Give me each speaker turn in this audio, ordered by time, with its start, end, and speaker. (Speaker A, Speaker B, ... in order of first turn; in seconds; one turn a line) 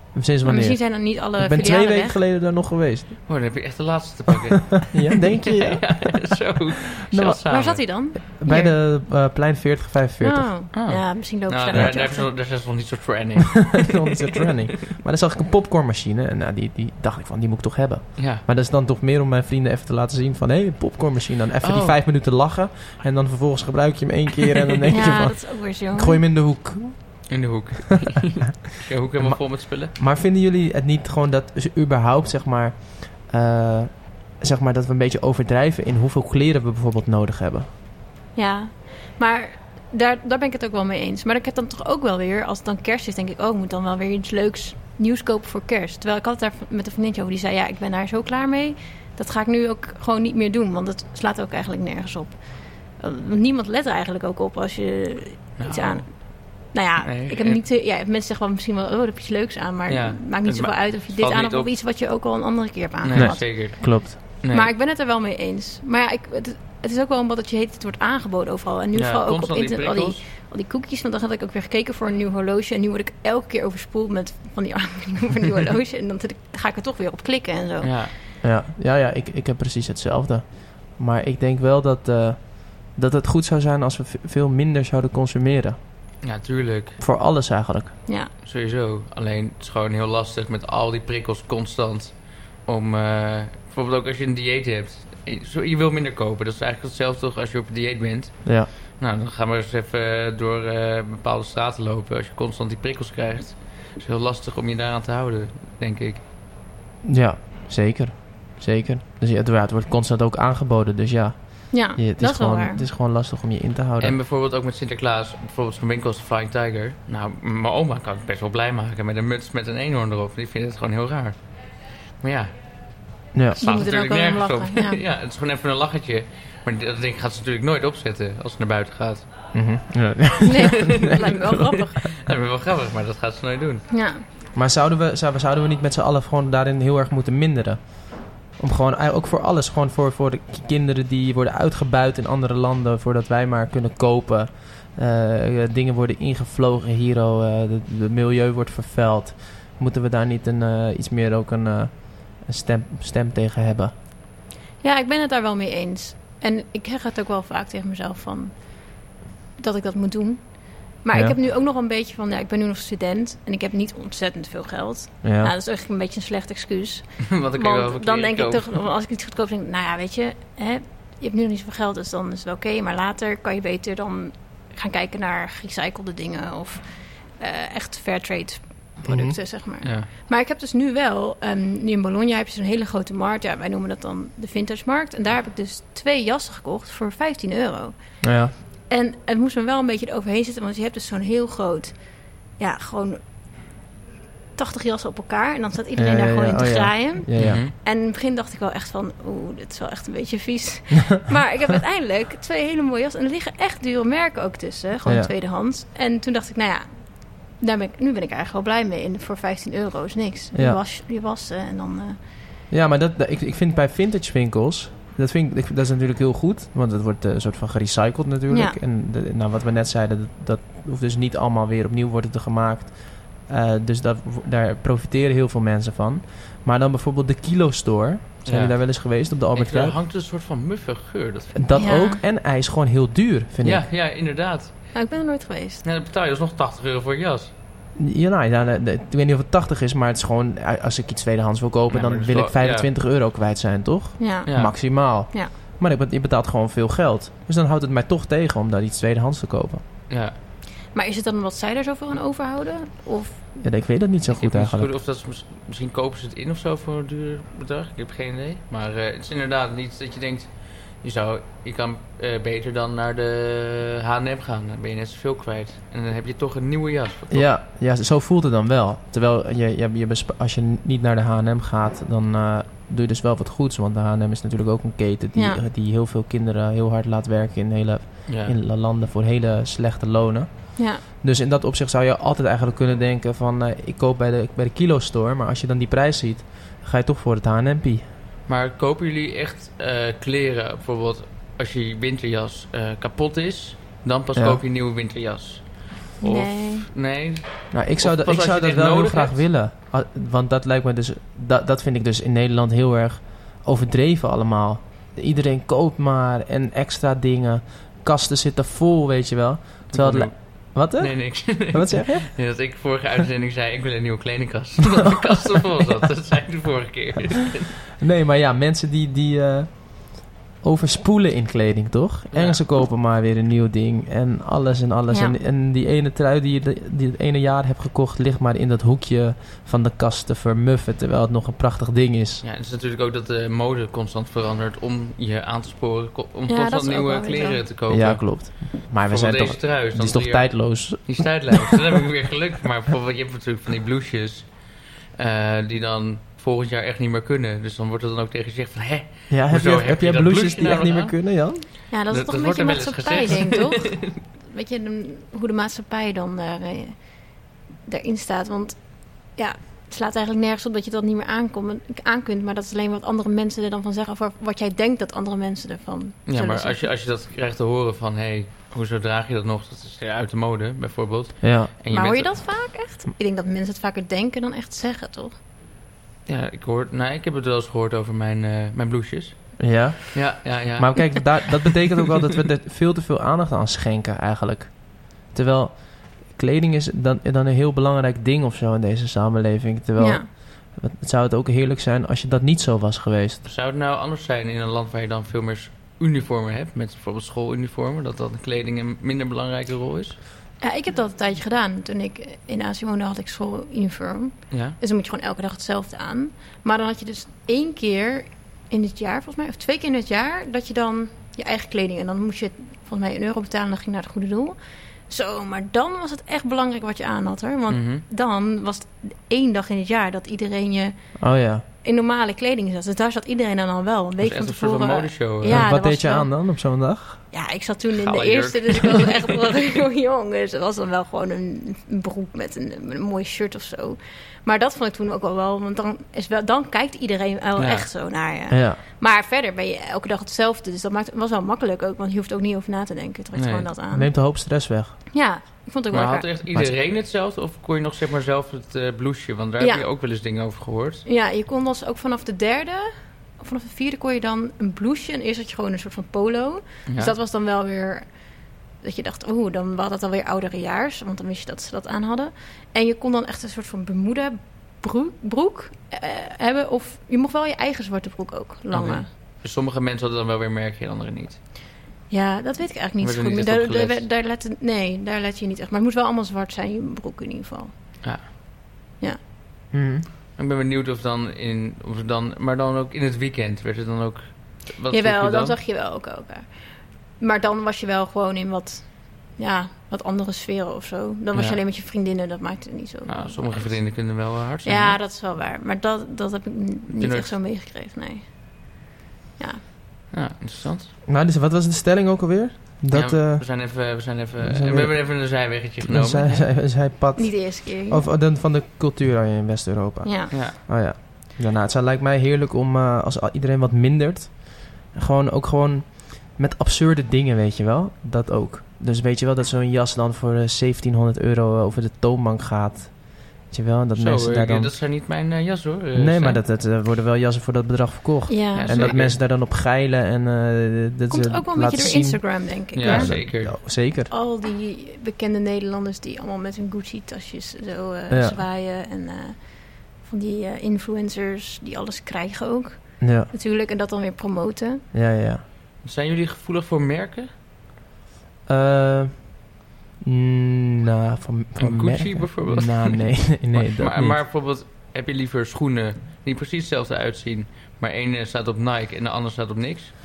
Speaker A: 0.1-3.3
Speaker B: 0.5-2.2
Speaker C: 3.3-7.8
Speaker A: 4.8-6.3
Speaker A: 7.1-7.4
Speaker B: 7.5-8.7
Speaker A: 8.2-10.5
Speaker B: 10.2-12.3
Speaker C: 10.7-14.9
Speaker A: 13.6-27.4
Speaker C: 18.2-18.4
Speaker C: 21.6-22.0
Speaker B: 24.9-26.2
Speaker C: 27.3-29.9
Speaker A: 29.2-37.7
Speaker B: 38.4-78.1
Speaker C: 55.6-57.6
Speaker C: 59.9-61.7
Speaker C: 63.0-64.7
Speaker A: 63.1-64.2
Speaker C: 69.0-70.2
Speaker C: 77.8-78.1
Speaker A: 78.4-85.8
Speaker C: 86.2-87.0
Speaker A: 87.0-88.0
Speaker C: 88.4-106.2
Speaker A: 107.0-114.2
Speaker B: 111.7-112.9
Speaker C: 114.0-121.5
Speaker C: 122.2-122.5
Speaker A: 123.3-123.6
Speaker B: 123.6-125.0
Speaker C: 123.6-129.5
Speaker A: 129.5-131.1
Speaker B: 130.4-132.0
Speaker C: 130.7-133.9
Speaker B: 133.9-134.2
Speaker A: 134.6-153.9
Speaker B: 154.8-159.0
Speaker B: 159.6-193.2
Speaker A: 165.2-165.5
Speaker C: 167.3-168.8
Speaker A: 179.1-179.4
Speaker C: 179.8-180.1
Speaker A: 188.2-188.5
Speaker B: 194.6-212.2
Speaker A: 196.0-197.7
Speaker C: 197.4-197.7
Speaker A: 205.1-205.3
Speaker A: 210.5-210.8
Speaker A: 212.7-230.0
Speaker B: 218.5-218.8
Speaker C: 228.5-231.7
Speaker A: 231.6-233.9
Speaker B: 231.8-232.2
Speaker C: 233.6-235.0
Speaker B: 234.9-235.8
Speaker C: 235.8-237.5
Speaker A: 238.0-249.8
Speaker C: 241.9-242.9
Speaker B: 244.2-245.5
Speaker C: 244.5-244.8
Speaker C: 250.1-250.3
Speaker B: 250.9-253.4
Speaker A: 253.6-254.9
Speaker C: 254.3-267.5
Speaker A: 267.3-288.1
Speaker B: 275.4-275.6
Speaker C: 278.3-278.6
Speaker B: 280.8-281.0
Speaker C: 288.5-299.4
Speaker A: 294.4-294.6
Speaker B: 296.2-296.9
Speaker A: 297.7-312.3
Speaker C: 309.9-317.8
Speaker A: 318.0-332.4
Speaker C: 322.3-322.6
Speaker B: 325.1-325.4
Speaker C: 332.4-344.6
Speaker B: 336.5-337.6
Speaker A: 337.9-341.8
Speaker C: 345.2-354.0
Speaker A: 349.3-351.7
Speaker B: 351.9-366.9
Speaker C: 366.3-372.5
Speaker A: 371.4-371.7
Speaker B: 371.9-375.3
Speaker C: 376.3-381.6
Speaker A: 379.6-393.4
Speaker B: 390.0-390.3
Speaker C: 393.4-400.2
Speaker B: 400.6-426.4
Speaker C: 404.5-404.8
Speaker C: 417.7-418.0
Speaker A: 421.2-421.6
Speaker C: 424.2-425.7
Speaker A: 425.5-427.2
Speaker B: 427.3-444.3
Speaker C: 427.9-429.3
Speaker C: 437.6-437.9
Speaker A: 438.5-438.8
Speaker C: 443.4-443.7
Speaker A: 443.9-445.0
Speaker B: 445.1-446.3
Speaker C: 445.9-451.1
Speaker B: 449.6-449.9
Speaker B: 451.1-469.1
Speaker C: 456.9-457.1
Speaker C: 468.7-471.4
Speaker B: 472.1-478.0
Speaker C: 473.0-474.1
Speaker C: 478.0-478.3
Speaker A: 479.7-480.1
Speaker C: 480.4-485.6
Speaker B: 484.9-498.8
Speaker C: 491.3-491.6
Speaker C: 493.1-495.0
Speaker C: 497.0-497.4
Speaker B: 499.4-499.6
Speaker C: 500.1-500.9
Speaker A: 501.1-524.8
Speaker C: 502.9-506.5
Speaker B: 507.2-508.1
Speaker B: 510.0-510.3
Speaker C: 510.3-510.6
Speaker C: 524.0-526.4
Speaker A: 526.0-534.1
Speaker B: 528.3-529.0
Speaker C: 528.5-529.2
Speaker B: 531.1-533.3
Speaker C: 532.7-533.6
Speaker B: 534.0-544.8
Speaker A: 538.1-538.4
Speaker A: 543.0-543.3
Speaker A: 544.9-545.4
Speaker C: 545.8-547.3
Speaker A: 548.5-554.2
Speaker C: 551.6-559.9